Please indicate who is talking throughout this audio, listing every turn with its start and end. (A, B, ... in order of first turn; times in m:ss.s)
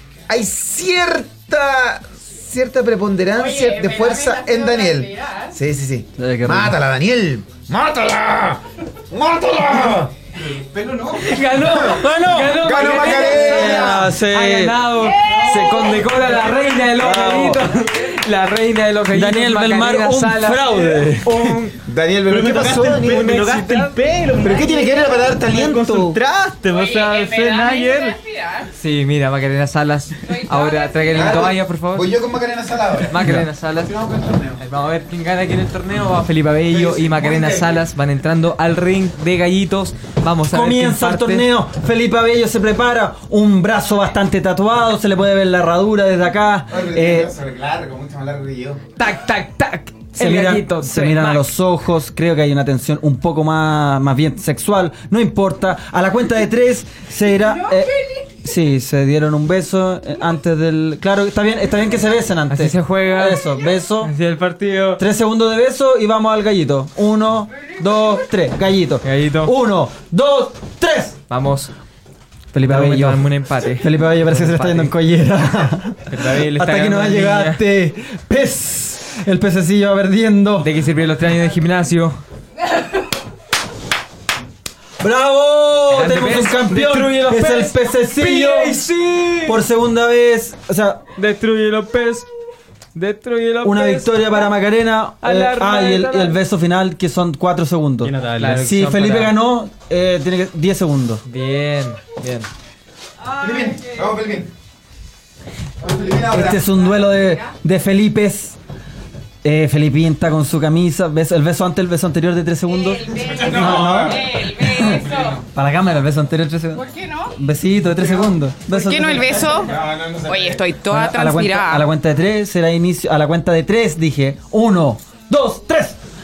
0:00.3-0:11.9 A
0:03.4-0:05.5 B
0:06.2-0:06.8 C
0:11.2-0:21.8 D
0:11.9-0:14.9 C
0:12.5-0:14.1 A
0:15.1-0:15.9 B
0:16.9-0:17.6 C
0:19.1-0:21.3 C
0:21.7-0:23.5 A
0:22.3-0:24.8 E
0:23.0-0:24.0 D
0:24.4-0:26.2 A
0:24.5-0:25.2 B
0:25.4-0:28.2 E
0:26.7-0:28.7 B
0:28.7-0:32.1 D
0:30.2-0:31.5 B
0:31.1-0:34.6 A
0:33.1-0:34.0 D
0:34.6-0:41.5 D
0:36.7-0:37.8 A
0:40.5-0:47.3 C
0:46.7-0:48.8 A
0:49.0-0:51.5 D
0:50.2-1:04.1 C
1:02.5-1:05.0 D
1:05.0-1:11.2 C
1:09.0-1:09.5 D
1:11.3-1:11.7 D
1:12.5-1:14.9 D
1:12.6-1:20.7 C
1:16.1-1:17.6 D
1:20.6-1:22.2 D
1:25.0-1:28.8 C
1:25.9-1:29.6 D
1:29.4-1:31.0 C
1:31.2-1:32.3 D
1:32.9-1:34.5 D
1:33.6-1:41.2 C
1:35.2-1:36.4 D
1:38.0-1:38.6 E
1:38.4-1:39.4 D
1:41.2-1:42.5 D
1:43.3-1:44.5 A
1:45.8-1:46.9 A
1:46.3-1:48.6 C
1:46.9-1:47.2 B
1:49.4-1:56.8 C
1:52.7-1:55.4 B
1:53.1-1:55.4 A
1:56.7-1:57.3 B
1:57.4-1:59.4 C
1:58.0-1:58.3 A
1:58.7-2:01.9 B
1:59.3-2:00.7 A
2:00.9-2:06.0 C